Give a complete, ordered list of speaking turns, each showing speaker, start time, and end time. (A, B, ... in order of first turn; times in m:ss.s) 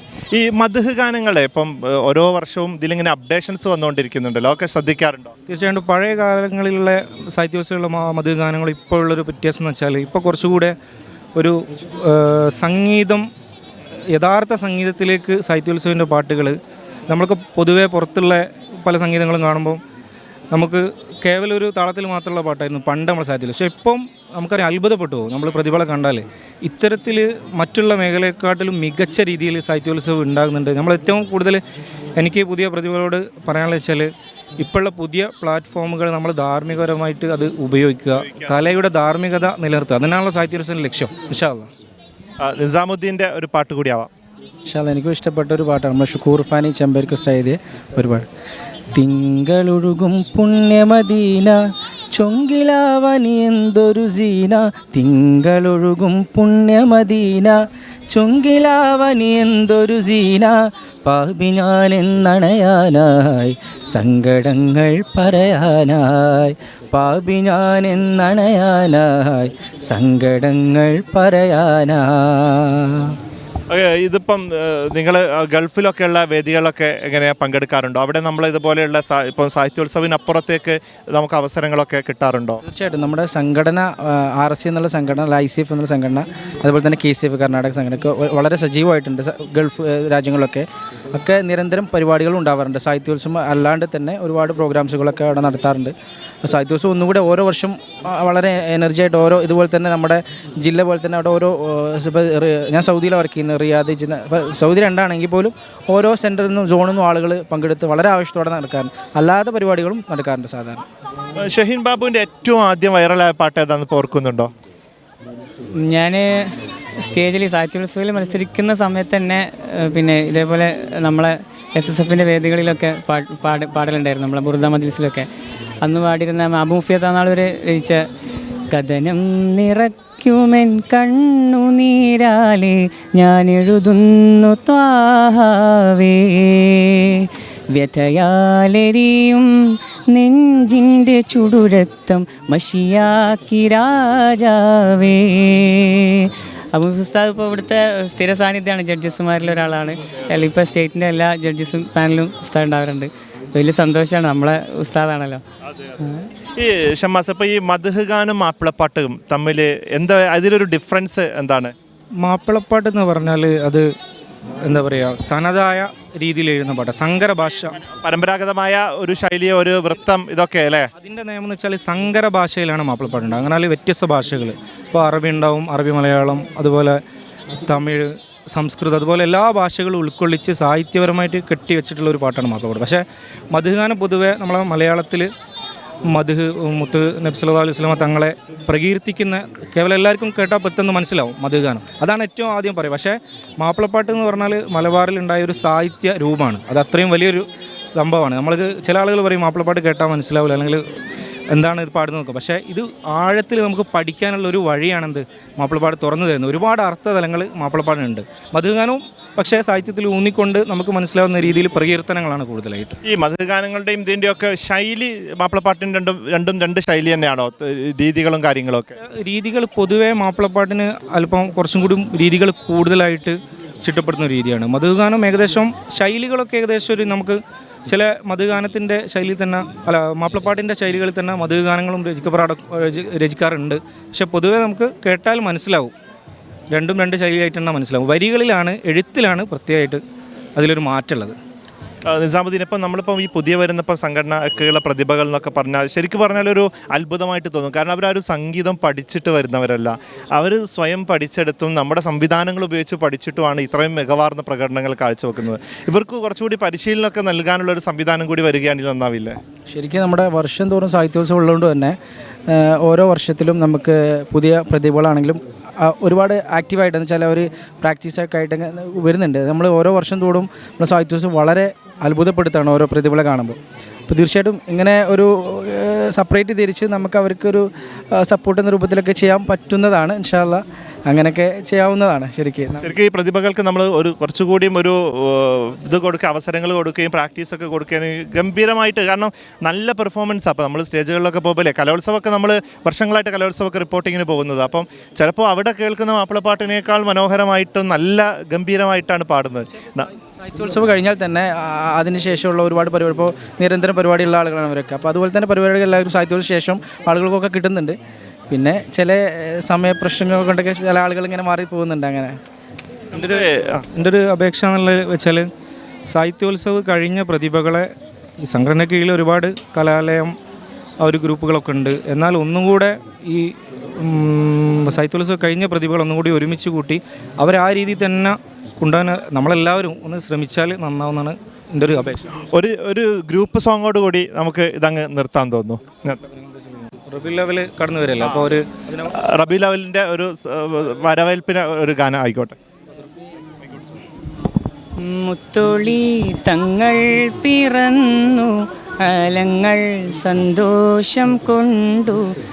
0:00.3-0:05.3 A
0:05.5-0:10.7 B
0:11.4-0:13.2 B
0:14.1-0:16.5 B
0:17.1-0:19.8 B
0:20.5-0:31.6 B
0:32.2-0:34.1 B
0:34.6-0:41.7 B
0:42.4-0:44.1 A
0:44.7-0:48.2 C
0:48.9-0:51.6 C
0:52.1-0:57.6 C
0:58.1-1:13.2 C
1:13.7-1:22.6 A
1:22.6-1:50.8 C
1:51.4-1:54.5 A
1:55.8-2:05.3 D
2:05.8-2:08.0 D
2:08.7-2:35.4 D
2:36.0-2:36.2 D
2:36.6-2:41.7 A
2:42.2-2:43.8 B
2:44.6-2:47.8 B
2:47.8-2:50.9 A
2:51.0-2:57.0 B
2:57.7-3:03.0 B
3:03.5-3:05.3 B
3:06.1-3:20.8 B
3:21.5-3:32.9 B
3:33.0-3:38.9 A
3:39.2-3:47.4 B
3:47.9-3:55.9 B
3:56.7-4:00.0 B
4:00.6-4:01.3 B
4:02.1-4:19.4 A
4:19.7-4:22.0 C
4:22.5-4:33.6 C
4:34.1-4:42.9 C
4:42.8-5:00.1 A
5:00.4-5:08.0 C
5:08.5-5:12.3 C
5:13.1-5:13.8 A
5:14.0-5:15.4 B
5:16.1-5:17.9 B
5:18.4-5:20.3 B
5:21.0-5:32.4 B
5:32.5-5:36.2 A
5:36.3-5:39.1 B
5:38.2-5:38.5 A
5:39.1-5:42.6 A
5:45.0-5:52.3 D